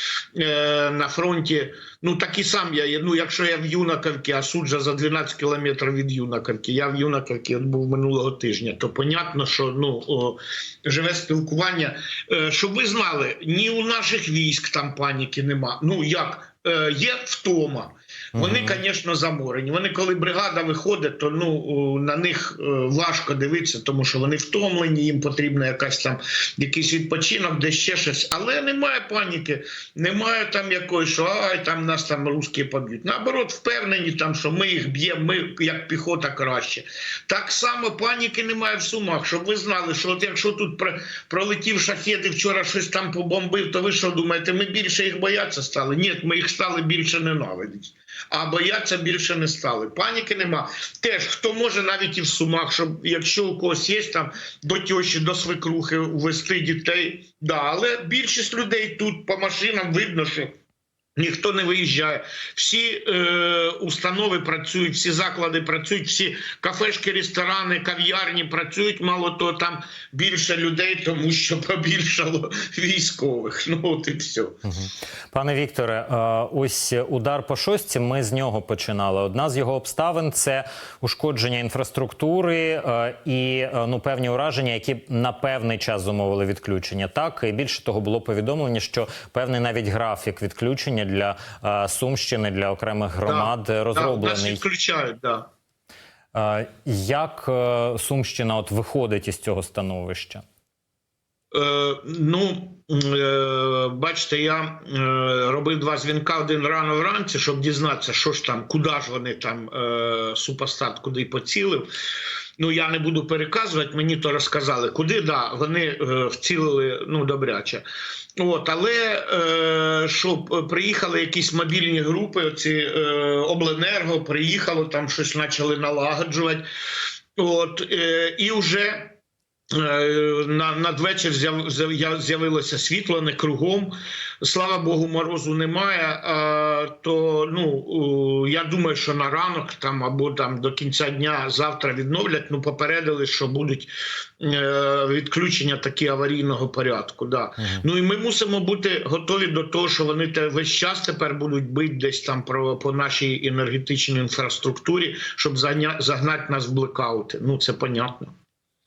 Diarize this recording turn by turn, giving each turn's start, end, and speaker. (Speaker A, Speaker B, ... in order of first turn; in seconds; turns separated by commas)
Speaker A: 0.3-60.5, Speaker B: 18.4-18.8, Speaker A: 61.2-74.6, Speaker B: 74.7-94.6, Speaker A: 93.2-95.5, Speaker B: 96.3-100.4, Speaker A: 101.5-111.9, Speaker A: 112.6-117.8, Speaker A: 118.4-126.6, Speaker A: 127.4-129.2, Speaker A: 129.7-158.3